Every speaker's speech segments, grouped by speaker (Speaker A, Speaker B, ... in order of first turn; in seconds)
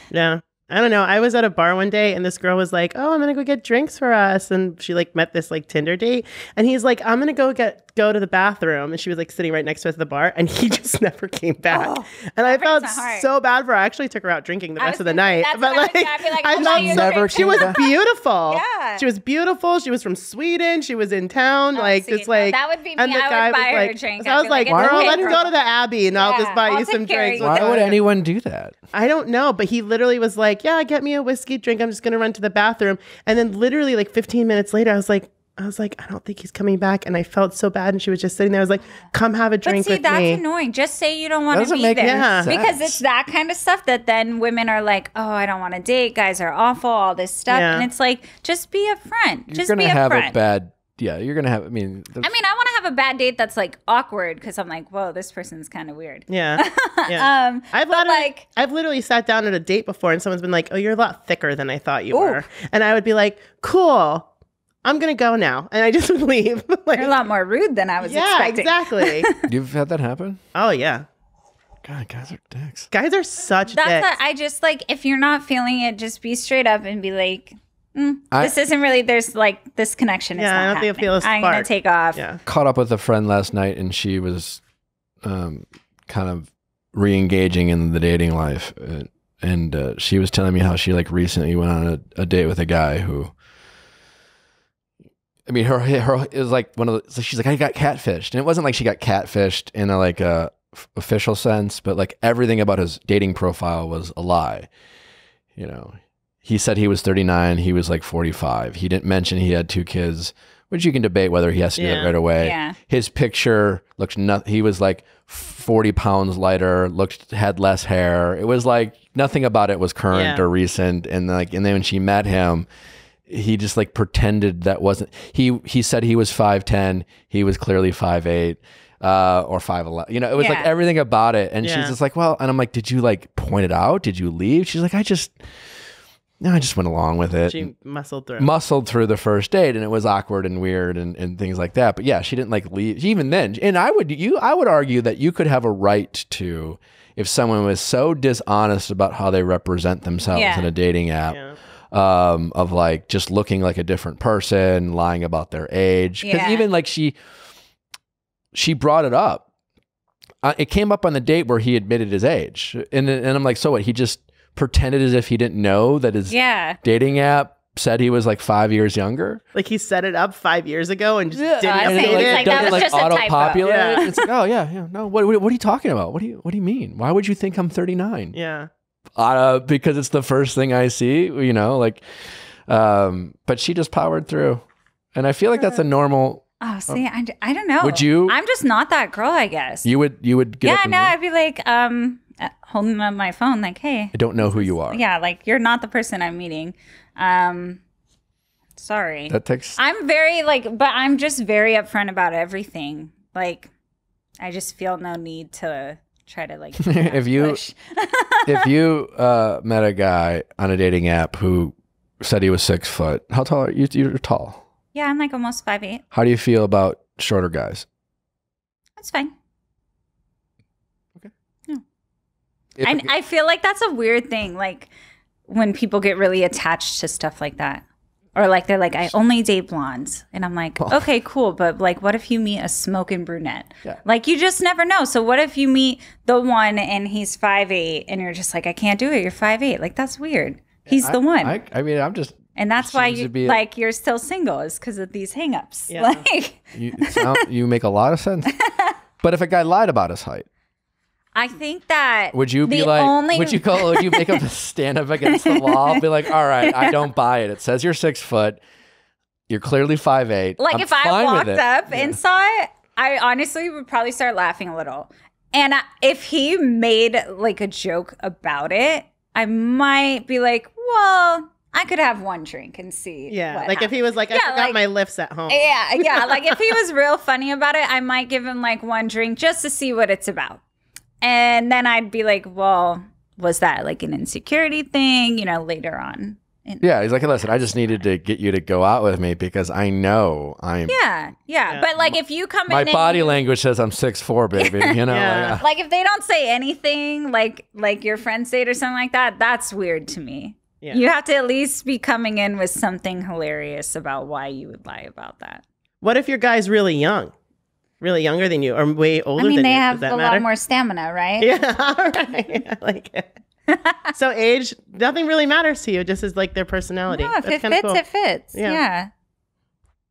Speaker A: 0.1-28.0, 28.9-40.4, 42.0-42.5, 47.5-47.9, 56.3-64.3, 64.8-67.2, 68.0-69.3, 70.5-71.0, 72.9-74.1, 80.4-82.4, 111.8-112.1, 120.1-120.4, 131.6-131.9, 137.5-138.5, 151.3-151.6, 169.5-173.1, 173.6-174.1, 178.3-178.7, 245.9-246.2, 273.3-276.6, 295.1-295.6, 306.0-307.3, 308.0-310.4, 311.4-313.3, 314.1-318.0, 318.5-318.8
Speaker B: 11.7-13.3, 14.8-19.1, 21.7-25.5, 26.1-27.9, 39.6-50.4, 52.2-58.4, 62.1-62.4, 67.0-69.4, 73.7-82.2, 112.4-112.8, 130.3-130.7, 150.3-150.7, 156.2-156.6, 166.3-166.8, 171.6-174.1, 186.6-189.9, 190.6-197.8, 198.8-203.7, 204.4-208.7, 214.9-216.0, 219.0-219.3, 222.8-224.9, 225.5-227.8, 228.3-241.6, 242.6-247.4, 248.5-248.9, 251.3-254.4, 255.3-256.0, 256.6-256.9, 260.6-274.8, 275.5-280.6, 281.2-286.9, 290.9-293.4, 294.6-295.0, 295.6-305.6, 309.4-311.6, 313.7-314.0, 317.1-319.1
Speaker C: 16.6-17.8, 24.7-25.2, 27.4-28.8, 41.5-43.0, 49.5-52.3, 69.5-70.4, 71.8-72.9, 82.5-84.6, 85.2-93.3, 95.5-104.7, 105.5-122.7, 123.3-135.4, 136.4-137.7, 138.4-151.4, 151.9-157.2, 158.5-159.5, 160.4-169.4, 171.3-178.3, 179.2-184.6, 185.1-187.0, 187.8-188.4, 189.8-191.1, 194.1-195.0, 199.3-199.8, 206.8-207.6, 208.4-214.6, 216.1-217.8, 222.8-223.1, 230.8-231.1, 240.9-243.6, 246.7-248.5, 249.2-250.4, 252.3-258.6, 259.5-262.2, 286.8-291.0, 292.7-295.6